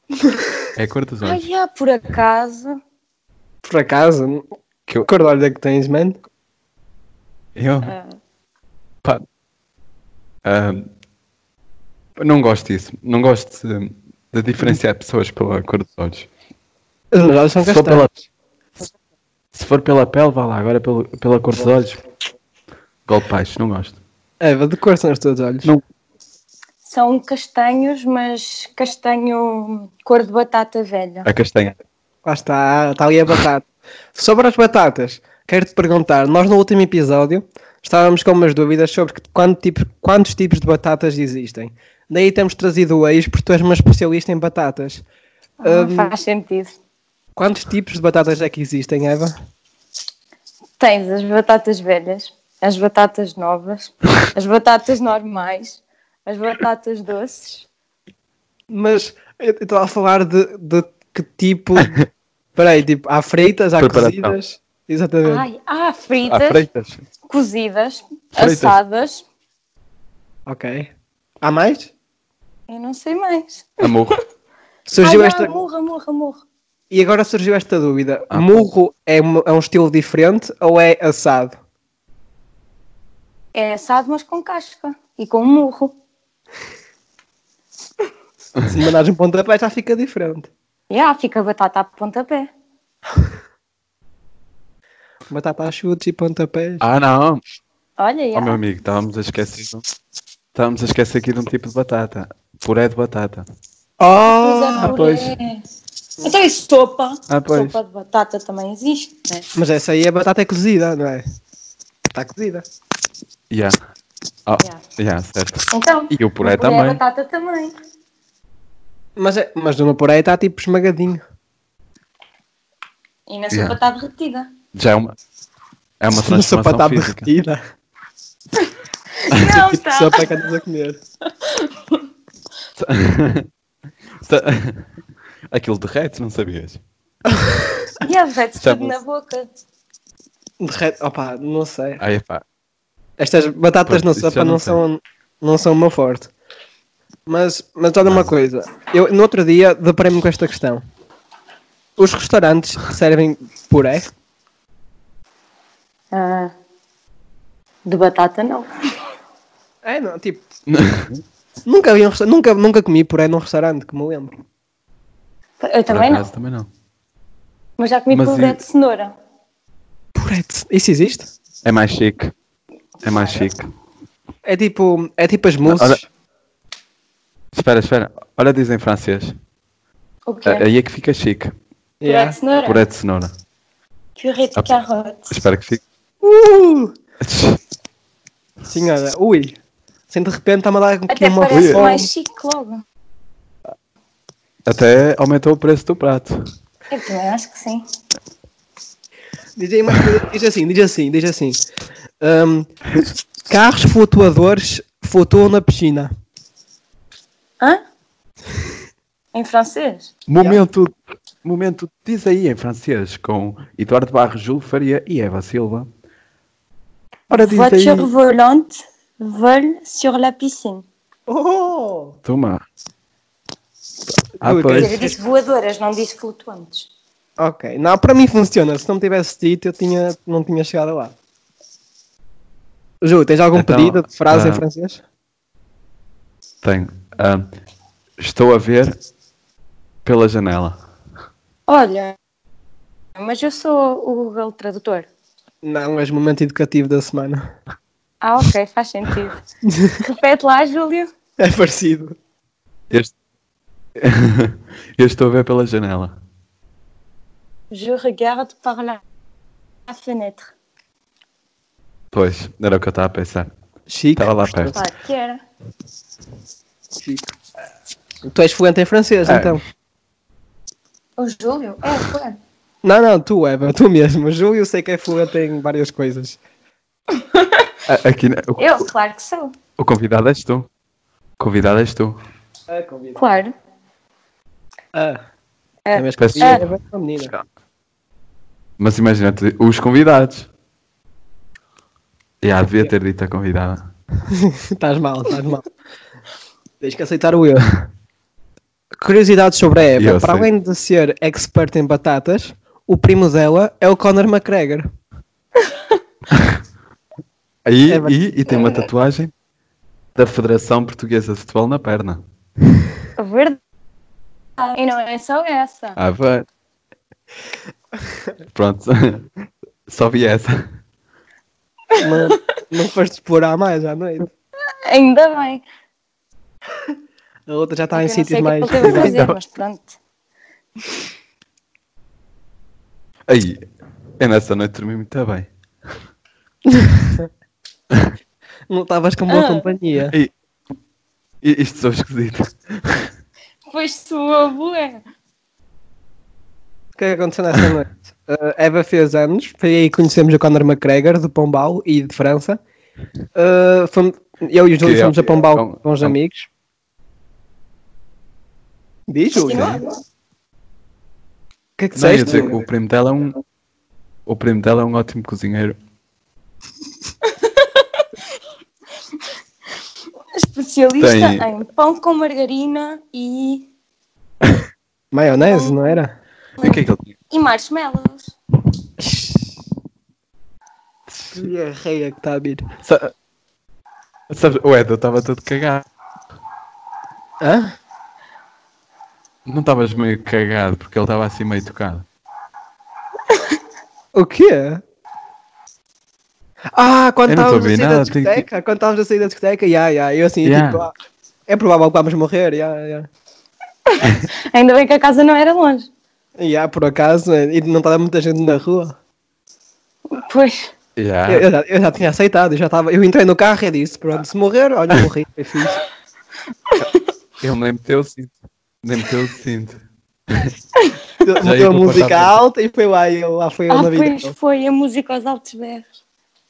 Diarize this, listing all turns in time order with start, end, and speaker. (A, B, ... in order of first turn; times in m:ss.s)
0:00.8-0:01.4 A
0:01.2-0:02.8 B
0:03.6-0:04.4 C
0:05.0-0:06.2 C
0:07.6-0:07.9 A
0:07.8-0:08.2 B
0:10.4-0:10.9 A
0:12.2-0:16.3 A
0:17.1-0:18.1 C
0:17.6-0:18.1 A
0:19.5-0:22.0 A
0:23.0-0:24.0 A
0:24.4-0:25.7 C
0:26.8-0:31.3 B
0:31.2-0:31.8 A
0:32.2-0:45.0 C
0:45.6-0:46.8 B
0:45.6-0:46.1 C
0:47.4-0:49.3 C
0:50.8-0:57.6 B
0:58.7-1:05.4 C
1:03.8-1:04.3 A
1:05.2-1:06.6 B
1:06.3-1:07.0 A
1:07.2-1:09.2 B
1:08.4-1:08.8 A
1:10.4-1:10.9 C
1:11.4-1:11.9 C
1:12.7-1:13.8 B
1:13.8-1:14.2 A
1:14.9-1:15.6 C
1:15.0-1:16.4 B
1:16.9-1:21.6 C
1:18.3-1:18.6 A
1:23.5-1:26.0 B
1:28.7-1:30.5 C
1:30.9-1:32.5 B
1:35.3-1:36.8 C
1:36.8-1:37.4 A
1:38.0-1:38.6 B
1:38.3-1:39.8 A
1:40.5-1:43.5 A
1:44.0-1:45.0 C
1:44.3-1:45.6 B
1:44.8-1:45.3 A
1:46.2-1:49.4 B
1:47.3-1:47.8 A
1:49.5-1:51.2 C
1:52.1-1:52.6 C
1:53.5-1:53.8 A
1:54.5-1:57.0 A
1:55.7-1:57.7 B
1:59.2-2:01.2 C
2:03.3-2:04.5 B
2:03.5-2:03.8 A
2:04.7-2:05.1 A
2:06.0-2:07.3 A
2:06.1-2:07.6 C
2:09.2-2:10.3 B
2:09.5-2:11.0 C
2:11.4-2:12.0 B
2:12.8-2:13.5 A
2:14.2-2:14.9 A
2:15.5-2:16.8 A
2:17.3-2:17.9 C
2:18.0-2:19.5 B
2:18.6-2:19.0 A
2:20.6-2:22.0 C
2:22.0-2:22.4 A
2:23.2-2:26.3 C
2:23.8-2:24.8 A
2:27.3-2:30.8 C
2:32.0-2:34.1 C
2:36.1-2:36.5 B
2:37.8-2:38.7 B
2:39.8-2:40.4 C
2:40.7-2:41.2 A
2:41.6-2:44.3 C
2:45.6-2:46.2 B
2:45.9-2:46.7 A
2:47.8-2:49.2 B
2:48.1-2:48.6 A
2:50.2-2:51.3 C
2:51.6-2:52.3 A
2:53.0-2:53.7 A
2:54.4-2:56.0 C
2:55.6-2:56.0 A
2:57.5-2:59.4 A
3:00.3-3:00.6 B
3:00.4-3:01.5 A
3:02.0-3:02.4 C
3:02.0-3:02.8 B
3:02.6-3:03.3 A
3:04.2-3:05.4 B
3:05.3-3:05.8 A
3:06.2-3:06.9 C
3:07.2-3:07.6 A
3:08.7-3:09.6 C
3:10.1-3:12.1 C
3:11.1-3:12.8 B
3:11.5-3:12.0 A
3:14.6-3:16.4 A
3:16.9-3:17.8 B
3:19.6-3:21.6 C
3:22.2-3:22.7 C
3:23.5-3:26.1 C
3:29.3-3:30.1 B
3:30.3-3:35.9 A
3:37.3-3:40.8 B
3:37.3-3:38.1 C
3:41.3-3:42.2 C
3:42.2-3:42.6 A
3:44.4-3:45.0 A
3:44.4-3:45.1 C
3:44.8-3:46.9 B
3:47.4-3:51.1 C
3:53.0-3:55.0 C
3:53.5-3:54.6 A
3:56.6-3:57.5 A
3:58.2-3:59.0 A
4:00.0-4:00.8 A
4:01.7-4:02.2 B
4:03.2-4:05.1 B
4:05.6-4:07.5 C
4:08.2-4:09.4 B
4:09.7-4:10.0 C
4:10.0-4:11.1 B
4:11.4-4:12.2 C
4:14.0-4:16.1 A
4:17.7-4:19.0 B
4:19.9-4:20.5 B
4:22.1-4:23.5 A
4:23.9-4:24.8 C
4:24.1-4:24.8 A
4:24.7-4:25.4 B
4:27.0-4:27.3 C
4:28.3-4:29.6 C
4:29.2-4:29.6 A
4:31.2-4:32.4 B
4:32.8-4:36.4 C
4:37.1-4:37.7 B
4:37.9-4:38.8 A
4:38.6-4:39.5 B
4:39.8-4:40.7 A
4:41.4-4:42.2 A
4:42.7-4:43.2 C
4:43.2-4:43.5 B
4:44.9-4:45.2 C
4:45.8-4:46.6 B
4:45.9-4:47.3 C
4:46.2-4:46.7 A
4:48.8-4:50.5 A
4:52.4-4:53.9 A
4:54.3-4:55.6 C
4:56.8-4:57.7 C
4:59.0-5:04.8 C
5:00.0-5:00.5 A
5:06.3-5:06.6 A
5:07.6-5:09.3 A
5:07.9-5:08.7 C
5:10.1-5:12.2 A
5:13.2-5:13.6 B
5:14.6-5:16.0 B
5:16.0-5:16.5 A
5:18.5-5:19.3 A
5:19.9-5:20.7 A
5:22.0-5:24.3 C
5:24.8-5:25.6 B
5:27.5-5:29.2 C
5:27.9-5:30.0 B
5:28.8-5:29.4 A
5:33.3-5:33.6 A
5:34.2-5:35.5 A
5:36.7-5:37.3 C
5:38.7-5:40.1 C
5:39.3-5:39.6 B
5:41.4-5:43.1 A
5:43.7-5:45.0 B
5:47.0-5:52.6 C
5:53.4-5:56.5 C
5:54.8-5:56.1 A
5:59.1-5:59.8 C
5:59.3-5:59.9 B
5:59.5-5:59.8 A
6:01.8-6:02.6 C
6:01.9-6:03.4 A
6:04.2-6:05.8 A
6:07.3-6:08.0 B
6:10.3-6:13.7 B
6:11.0-6:11.5 A
6:15.1-6:16.1 C
6:15.4-6:16.0 B
6:16.6-6:18.3 B
6:16.6-6:17.1 A
6:19.0-6:19.4 C
6:21.1-6:21.4 A
6:21.3-6:22.6 C
6:22.8-6:23.1 A
6:24.3-6:25.8 A
6:27.4-6:27.7 C
6:29.4-6:32.0 A
6:34.1-6:34.8 C
6:36.7-6:40.9 C
6:37.3-6:38.4 A
6:40.4-6:40.8 A
6:41.5-6:43.1 C
6:43.9-6:45.9 B
6:46.4-6:49.0 C
6:50.1-6:50.7 B
6:51.0-6:51.5 A
6:51.3-6:55.8 C
6:57.4-7:00.5 A
7:01.2-7:04.3 C
7:01.4-7:02.4 A
7:03.7-7:05.9 B